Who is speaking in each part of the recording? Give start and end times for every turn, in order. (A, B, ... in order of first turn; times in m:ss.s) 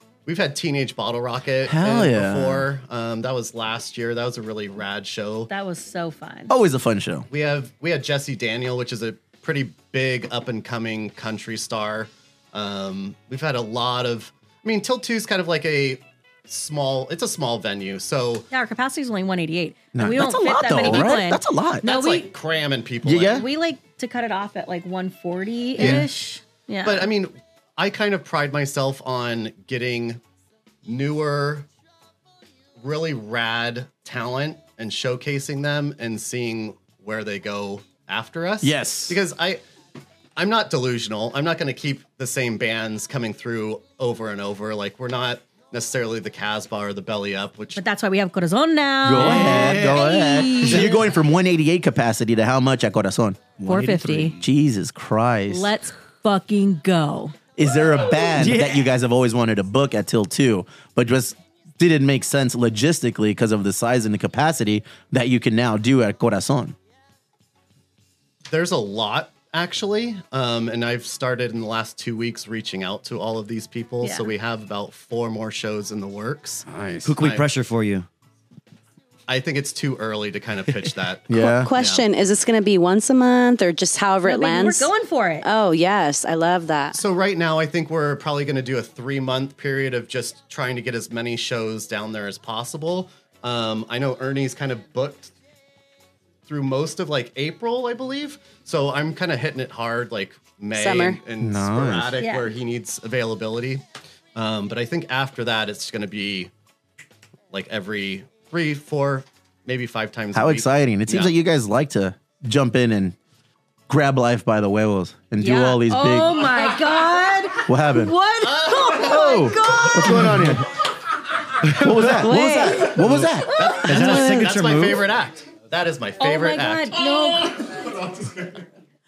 0:00.3-0:05.5 A
0:01.7-0:02.7 B
0:05.5-0:06.5 C
0:06.5-0:07.3 B
0:07.3-0:18.5 A
0:18.5-0:22.3 C
0:20.0-0:21.9 B
0:20.9-0:21.2 A
0:21.8-0:23.5 A
0:23.0-0:23.5 B
0:23.3-0:27.1 C
0:25.8-0:26.1 B
0:25.8-0:26.1 A
0:26.8-0:30.2 A
0:30.8-0:31.7 A
0:32.8-0:39.6 A
0:38.6-0:39.2 B
0:40.4-0:47.8 A
0:47.8-0:51.0 C
0:49.0-0:55.7 B
0:49.2-0:50.0 D
0:50.6-0:50.9 D
0:53.6-0:54.2 D
0:53.7-0:54.4 C
0:55.5-0:57.4 C
0:57.6-1:06.8 B
0:58.4-0:58.8 D
1:08.5-1:16.7 A
1:14.0-1:14.3 C
1:16.7-1:17.2 B
1:17.0-1:18.1 D
1:17.2-1:17.5 A
1:19.3-1:22.1 A
1:21.3-1:21.7 B
1:21.4-1:24.9 E
1:24.2-1:25.5 C
1:25.4-1:27.0 E
1:26.9-1:35.3 A
1:36.5-1:43.8 A
1:40.7-1:41.2 E
1:41.4-1:42.2 B
1:42.2-1:42.5 C
1:44.4-1:46.5 A
1:47.5-1:51.3 A
1:50.3-1:53.2 B
1:53.9-1:56.6 B
1:55.4-2:00.4 C
1:57.6-1:58.2 B
1:58.4-1:59.3 A
1:58.8-2:00.7 B
2:00.2-2:00.5 D
2:01.6-2:02.3 D
2:01.7-2:03.8 B
2:02.2-2:04.0 C
2:03.0-2:07.0 A
2:03.8-2:05.1 D
2:06.2-2:07.8 C